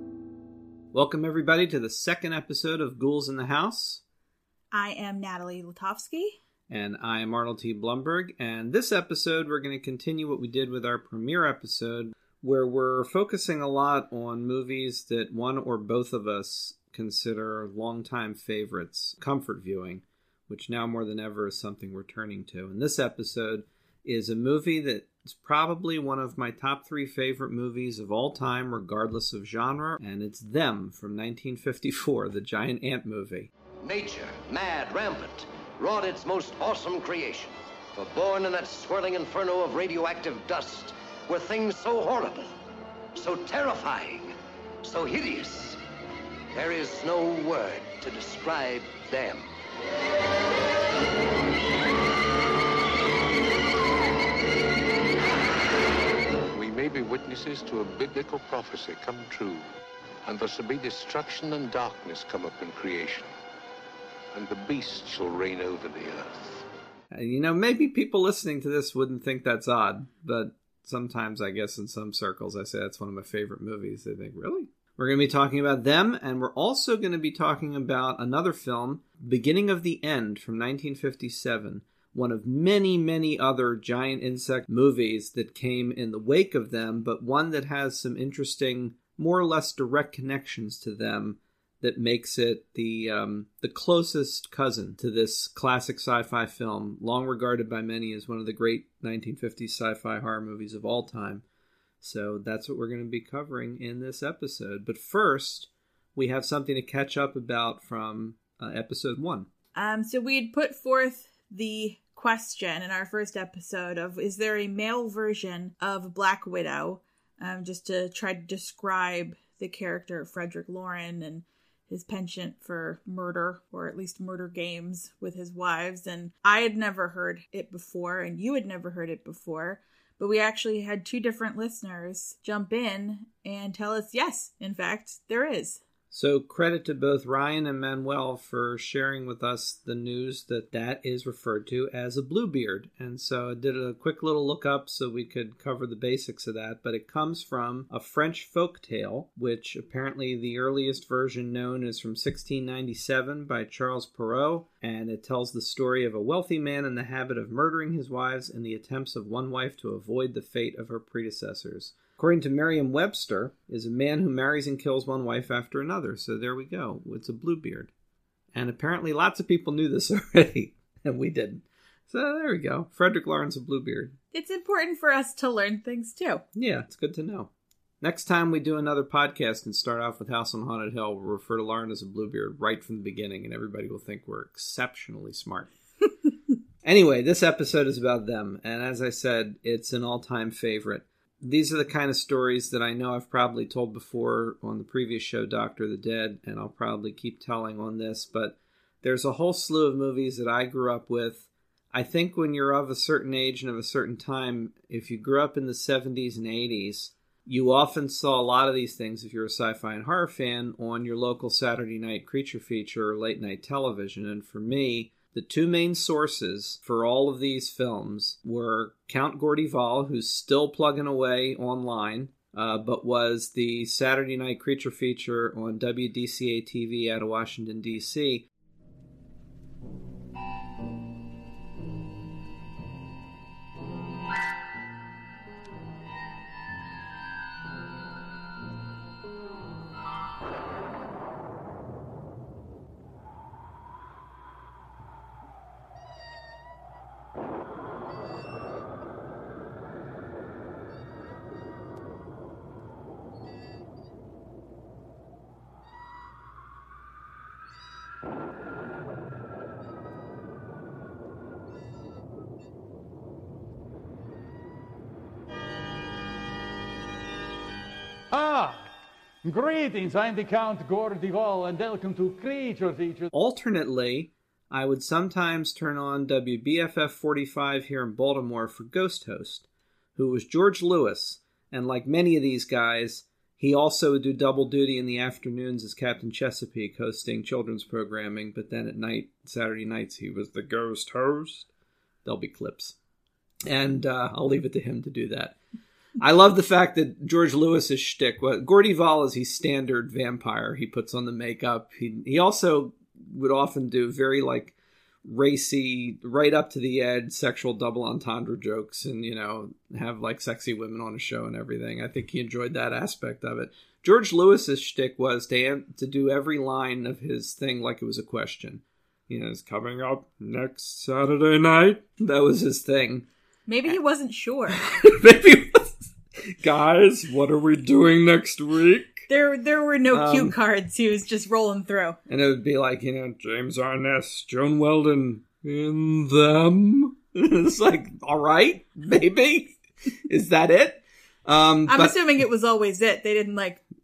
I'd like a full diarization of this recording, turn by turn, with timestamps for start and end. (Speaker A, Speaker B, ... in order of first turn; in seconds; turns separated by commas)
Speaker A: 0.9-4.0, Speaker B: 4.7-6.4, Speaker A: 6.7-33.5, Speaker C: 33.8-42.5, Speaker C: 43.1-45.8, Speaker C: 46.5-49.5, Speaker D: 56.5-59.7, Speaker D: 60.2-63.3, Speaker D: 64.3-66.6, Speaker A: 67.1-101.4, Speaker A: 102.0-109.5, Speaker B: 109.7-135.8, Speaker A: 136.1-167.9, Speaker A: 168.5-174.2, Speaker B: 174.3-176.4, Speaker A: 176.5-185.7, Speaker A: 186.8-228.5, Speaker E: 268.3-268.9, Speaker E: 269.4-273.3, Speaker A: 273.3-291.7, Speaker A: 292.2-292.9, Speaker A: 293.6-295.6, Speaker A: 296.2-323.3, Speaker B: 323.7-324.8, Speaker A: 324.7-329.3, Speaker B: 329.3-332.2, Speaker A: 330.1-330.5, Speaker A: 332.3-342.2, Speaker B: 341.9-343.8